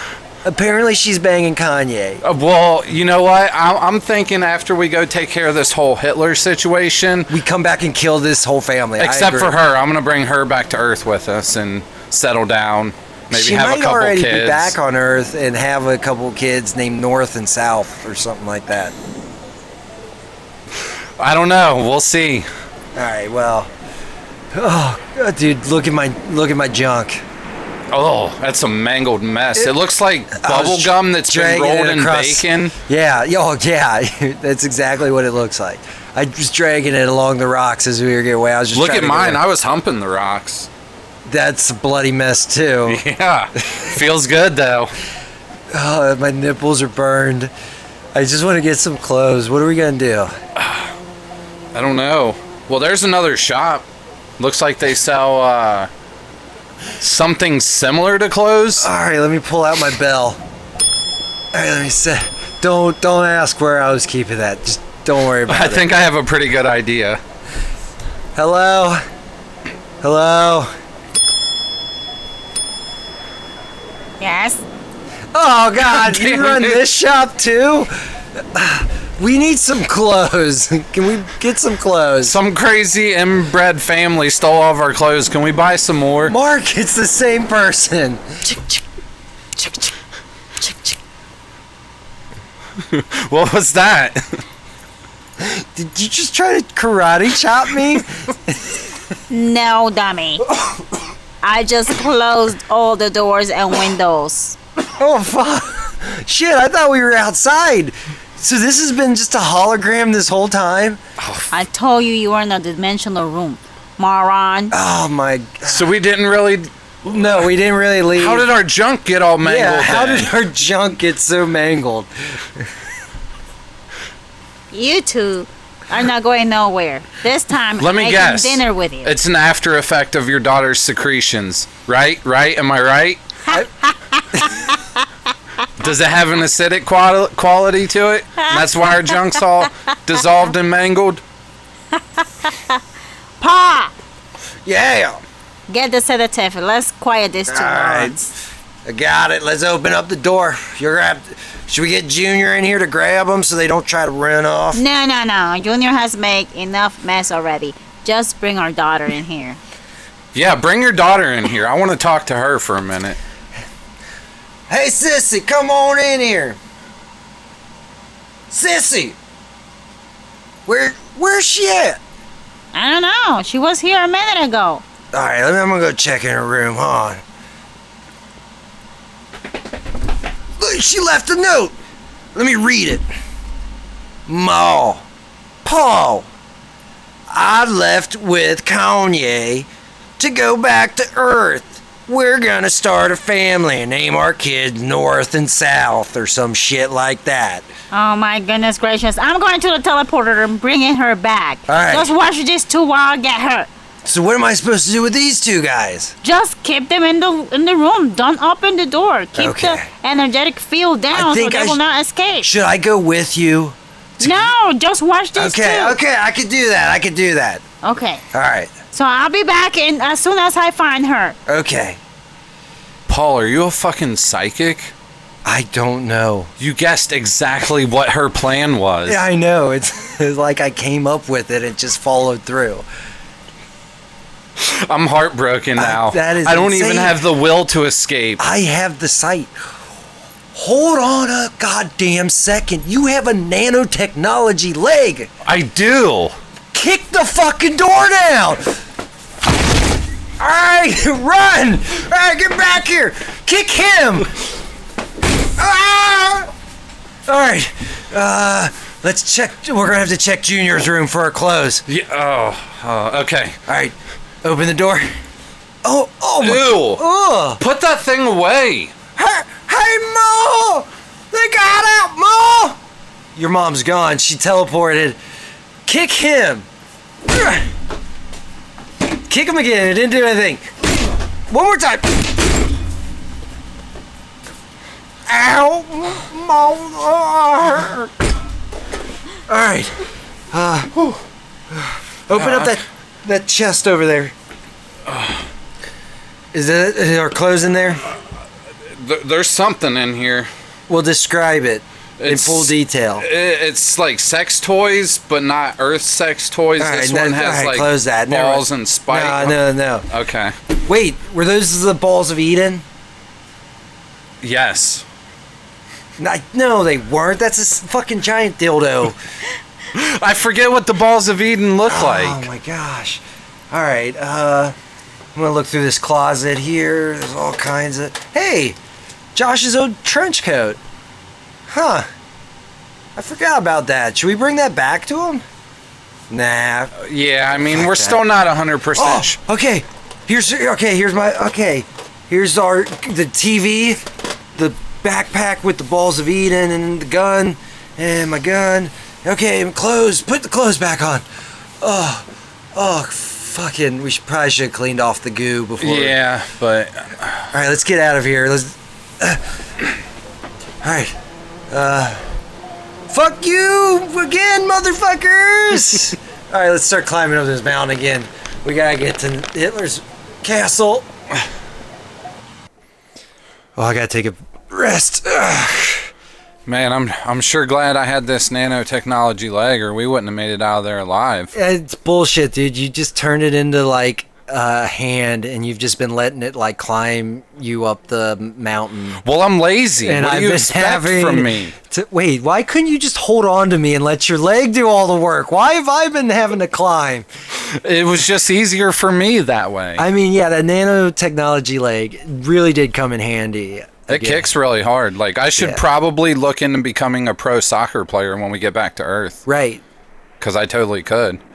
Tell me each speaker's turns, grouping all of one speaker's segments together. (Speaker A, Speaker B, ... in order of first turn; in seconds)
Speaker A: 0.4-2.2, 7.3-9.6, 13.3-18.9, 22.9-23.7, 24.5-27.2, 30.3-39.4, 41.2-43.0, 45.7-47.5, 48.1-50.3, 58.8-60.4, 61.5-65.9, 68.3-69.0, 70.0-70.7, 75.3-77.9, 78.5-82.4, 86.3-88.5, 95.4-98.6, 105.0-111.0, 114.7-115.9, 117.0-118.5, 119.4-122.7, 144.6-145.2, 147.5-148.1, 148.8-154.8, 164.7-166.6, 168.5-169.2, 170.7-172.0, 175.1-177.2, 180.6-181.7, 182.3-183.0, 184.3-185.0, 185.6-186.3, 187.3-189.7, 190.2-197.7, 201.7-202.1, 204.0-206.1, 209.3-209.9, 211.1-211.8, 212.4-214.5, 215.3-217.6, 218.3-218.7, 221.5-222.0, 225.4-226.5, 229.1-232.8, 235.8-237.2, 238.4-239.5, 240.5-245.3, 246.7-248.6, 250.4-254.3, 255.6-256.5, 257.2-261.8, 263.7-265.1, 265.8-267.6, 269.1-272.8, 273.3-275.2, 275.9-276.6, 277.3-277.6, 279.3-280.7, 281.5-282.1, 285.3-288.1, 289.5-289.9, 290.5-291.2, 291.7-294.3, 296.5-298.0, 300.9-303.3, 306.8-310.1, 310.8-312.8, 316.2-319.2, 321.9-324.7, 325.3-328.8, 329.3-330.8, 331.7-332.1, 333.1-335.4, 336.3-336.9, 337.7-338.2, 338.9-344.0, 344.6-351.2, 351.8-356.1, 357.5-359.4, 360.8-361.1, 361.7-362.2, 363.1-371.1, 373.8-376.1, 381.5-389.2, 390.0-397.3, 400.0-404.5, 405.6-405.8, 409.4-409.8
Speaker B: 2.2-7.3, 9.0-14.8, 21.2-22.5, 27.9-32.7, 38.7-40.7, 42.9-44.9, 50.5-50.9, 51.7-53.9, 54.4-55.9, 57.0-58.9, 65.5-67.2, 75.8-76.8, 82.2-86.3, 92.8-94.4, 111.2-111.5, 115.7-116.7, 118.1-120.3, 127.8-133.2, 135.8-141.2, 160.3-163.2, 223.1-224.9, 226.6-229.2, 234.6-238.4, 245.4-246.4, 261.9-263.6, 266.4-267.0, 267.6-268.9, 292.3-292.8, 295.1-295.4, 298.9-300.5, 302.2-310.5, 314.4-315.0, 319.9-322.5, 337.0-339.4, 355.8-357.4, 376.6-381.5, 389.2-391.8, 397.6-400.0, 404.1-409.4, 410.4-411.4
Speaker C: 74.2-74.6, 89.5-89.9, 90.6-91.0, 99.3-100.4, 101.4-104.6, 111.5-114.7, 124.7-129.2, 133.5-135.0, 138.4-139.2, 141.9-142.8, 143.4-143.9, 145.7-148.3, 154.7-159.6, 172.7-174.8, 197.9-203.7, 206.2-212.5, 214.2-216.0, 217.8-218.2, 218.9-221.4